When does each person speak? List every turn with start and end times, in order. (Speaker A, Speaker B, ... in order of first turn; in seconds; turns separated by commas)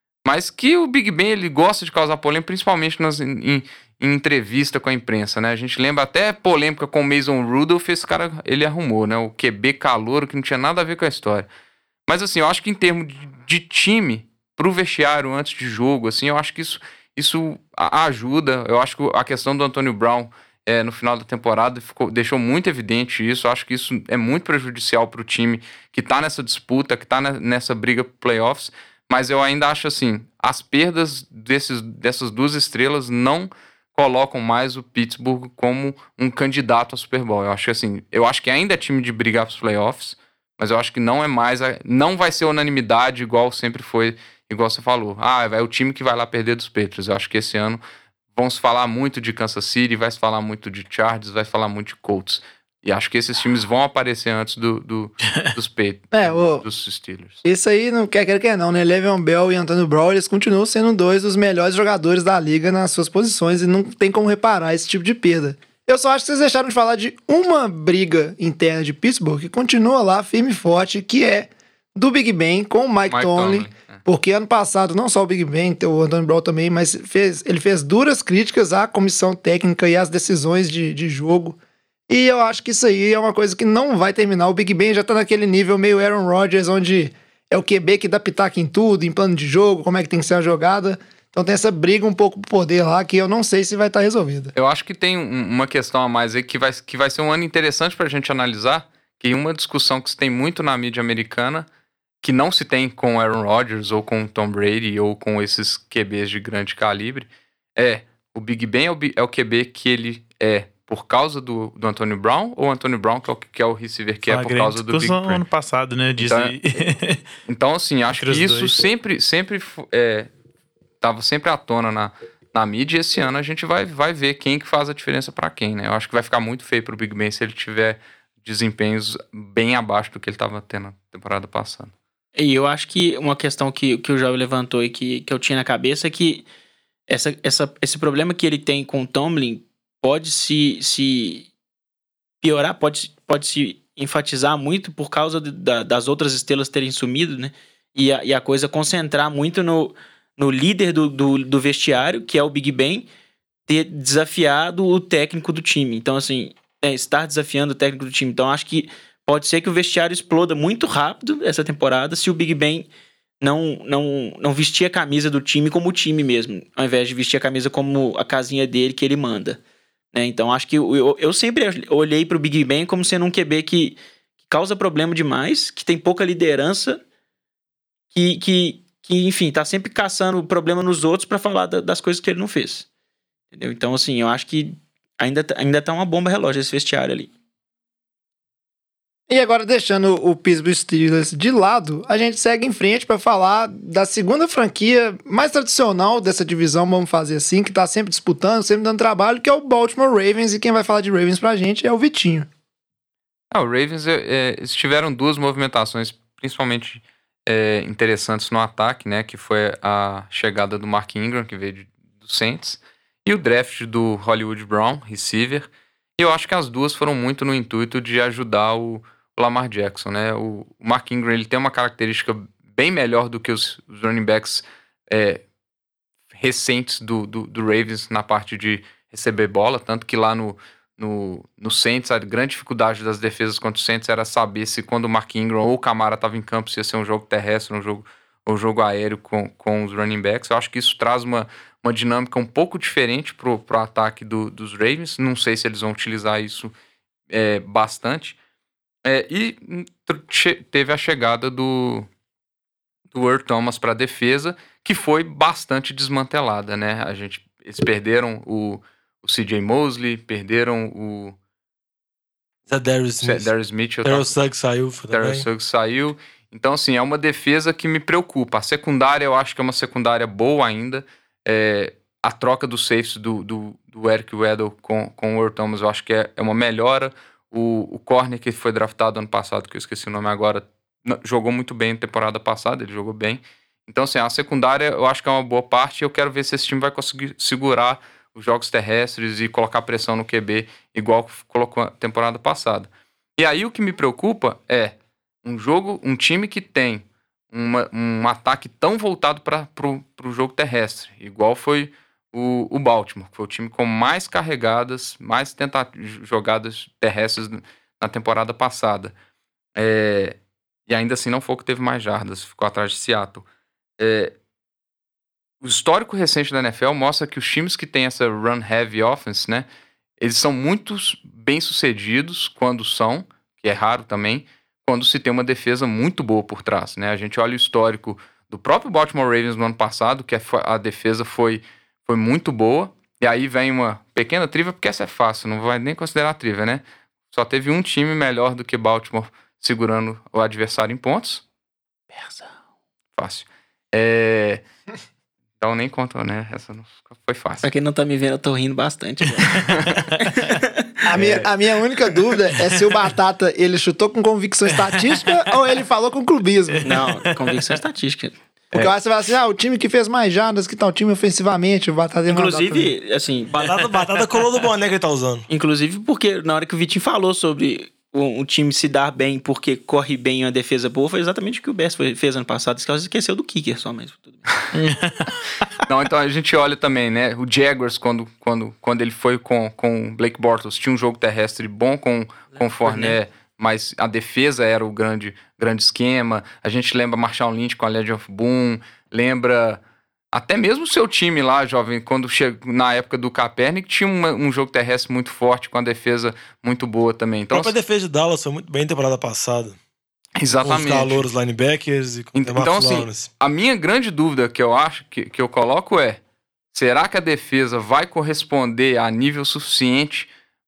Speaker A: 0.2-11.5, Speaker A: 12.1-47.8, Speaker A: 48.3-57.4, Speaker B: 56.1-56.6, Speaker B: 57.4-81.6, Speaker A: 73.1-74.0, Speaker B: 82.1-94.5, Speaker A: 94.5-101.7, Speaker A: 102.2-115.5, Speaker C: 114.2-117.2, Speaker A: 116.2-116.5, Speaker A: 117.5-120.3, Speaker C: 118.2-118.7, Speaker A: 121.0-131.9, Speaker D: 132.3-136.4, Speaker D: 137.1-141.5, Speaker D: 142.4-153.1, Speaker D: 153.7-162.9, Speaker D: 163.4-169.6, Speaker D: 170.1-177.0, Speaker D: 178.1-182.9, Speaker D: 183.5-187.3, Speaker B: 189.3-202.5, Speaker A: 203.5-225.4, Speaker A: 226.3-246.7, Speaker A: 247.3-248.3, Speaker A: 249.1-252.1, Speaker A: 253.1-261.4, Speaker E: 262.7-263.5, Speaker A: 263.2-264.4, Speaker E: 264.0-265.5, Speaker A: 265.1-309.1, Speaker A: 309.8-310.4, Speaker A: 310.9-313.4, Speaker A: 314.0-314.3, Speaker A: 315.6-319.7, Speaker A: 320.2-341.4, Speaker D: 342.2-342.5, Speaker A: 343.2-344.6, Speaker A: 345.6-347.7, Speaker D: 347.6-350.8, Speaker A: 349.6-350.0, Speaker B: 351.1-357.0, Speaker A: 351.2-351.5, Speaker D: 356.8-358.4, Speaker C: 357.0-357.3, Speaker B: 358.7-362.9, Speaker D: 362.3-363.5, Speaker E: 363.6-365.5, Speaker D: 365.5-374.5, Speaker C: 374.8-375.3, Speaker A: 375.9-389.8, Speaker A: 390.3-397.7, Speaker E: 397.5-399.8, Speaker A: 400.4-401.3, Speaker E: 400.6-403.3, Speaker A: 402.4-406.2, Speaker A: 406.7-410.3